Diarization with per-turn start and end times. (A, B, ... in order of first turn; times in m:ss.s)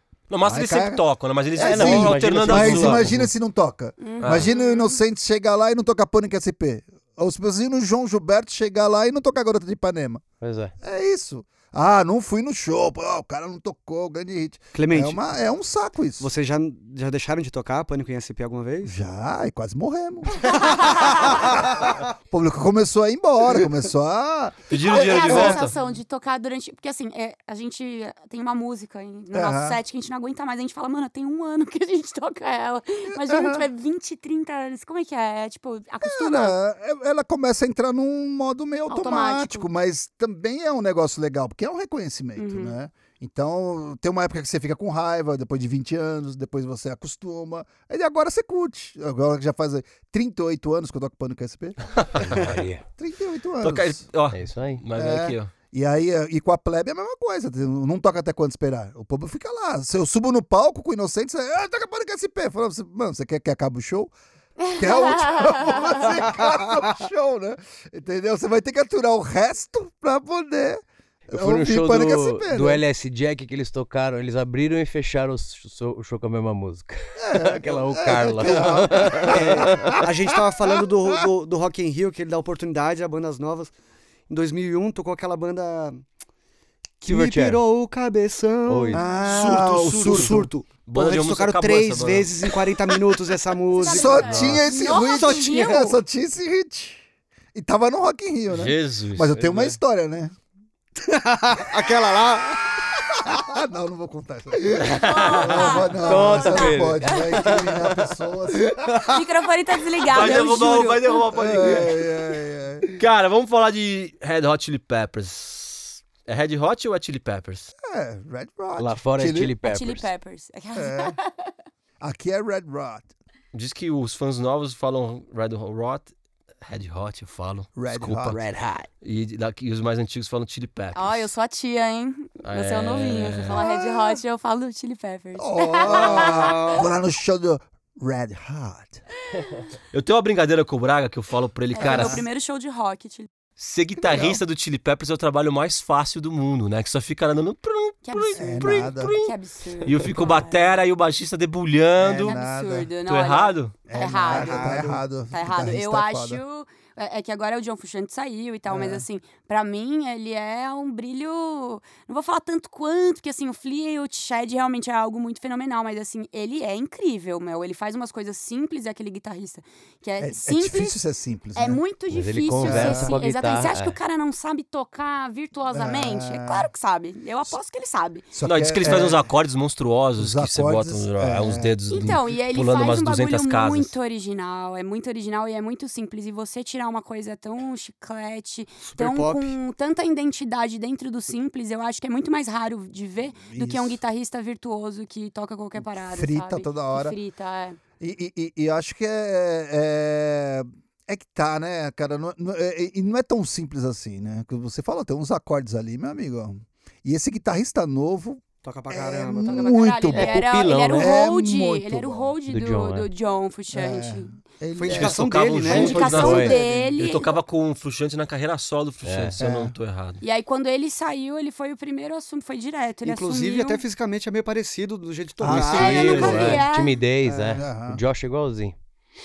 0:00.3-0:03.2 A
0:00.4-0:01.0 B
0:01.6-0:10.2 B
0:01.6-0:03.3 C
0:04.0-0:05.0 D
0:04.2-0:04.5 A
0:10.4-0:10.7 C
0:10.8-0:16.3 B
0:14.7-0:15.2 E
0:16.2-0:19.0 E
0:18.8-0:25.7 B
0:24.7-0:25.7 A
0:24.7-0:36.6 D
0:29.3-0:29.8 B
0:33.1-0:33.6 B
0:36.0-0:54.0 B
0:38.9-0:39.7 D
0:42.4-0:42.8 D
0:52.0-0:52.4 A
0:52.2-0:52.8 C
0:53.6-0:55.5 A
0:54.3-0:54.8 C
0:55.0-1:04.1 B
1:04.6-1:06.1 D
1:04.8-1:12.8 B
1:11.3-1:20.0 C
1:17.2-1:21.3 B
1:19.2-1:23.7 E
1:24.3-1:26.0 E
1:27.0-1:36.0 E
1:27.0-1:27.6 C
1:28.7-1:29.0 C
1:28.9-1:30.5 B
1:29.2-1:32.6 A
1:33.7-1:35.9 D
1:33.8-1:40.3 B
1:38.5-1:39.7 A
1:41.0-1:42.8 E
1:43.2-1:49.1 B
1:44.8-1:45.8 A
1:44.9-1:47.6 D
1:45.6-1:48.1 C
1:48.8-1:49.1 E
1:49.0-1:51.2 D
1:50.1-1:52.1 A
1:51.3-1:52.9 B
1:52.9-1:57.7 A
1:57.8-1:59.6 B
1:58.8-2:00.1 C
1:59.6-2:01.5 D
2:00.7-2:01.2 B
2:02.0-2:03.1 B
2:03.5-2:08.4 A
2:07.8-2:08.4 B
2:08.0-2:08.9 C
2:09.0-2:11.3 A
2:10.9-2:16.8 D
2:12.4-2:13.6 A
2:15.4-2:19.0 B
2:15.8-2:16.9 E
2:19.9-2:22.2 A
2:21.7-2:23.3 D
2:21.8-2:22.2 B
2:23.6-2:32.4 A
2:24.0-2:24.4 B
2:28.0-2:30.7 D
2:28.3-2:29.2 B
2:32.0-2:32.9 B
2:32.2-2:51.0 D
2:33.1-2:33.8 A
2:33.9-2:36.4 B
2:34.2-2:35.0 E
2:38.7-2:39.0 B
2:50.2-2:51.8 B
2:51.5-2:58.3 D
2:52.1-2:54.0 C
2:52.6-2:53.1 B
2:55.7-2:56.7 B
2:58.3-2:59.2 B
2:58.4-3:03.9 A
3:00.2-3:01.7 B
3:01.9-3:17.8 D
3:08.8-3:09.5 E
3:13.4-3:14.0 B
3:15.8-3:17.2 B
3:18.0-3:30.4 B
3:28.6-3:29.8 E
3:29.4-3:34.3 D
3:30.1-3:31.2 C
3:30.9-3:32.3 B
3:32.5-3:33.1 C
3:33.7-3:35.8 B
3:34.8-3:36.9 E
3:34.9-3:40.2 A
3:35.7-3:37.4 D
3:36.0-3:36.6 C
3:39.0-3:39.4 C
3:39.4-3:39.7 B
3:40.2-3:43.8 D
3:43.0-3:46.6 E
3:45.4-3:46.6 B
3:45.5-3:48.7 C
3:45.5-3:47.0 D
3:47.2-3:47.6 E
3:47.5-3:48.0 B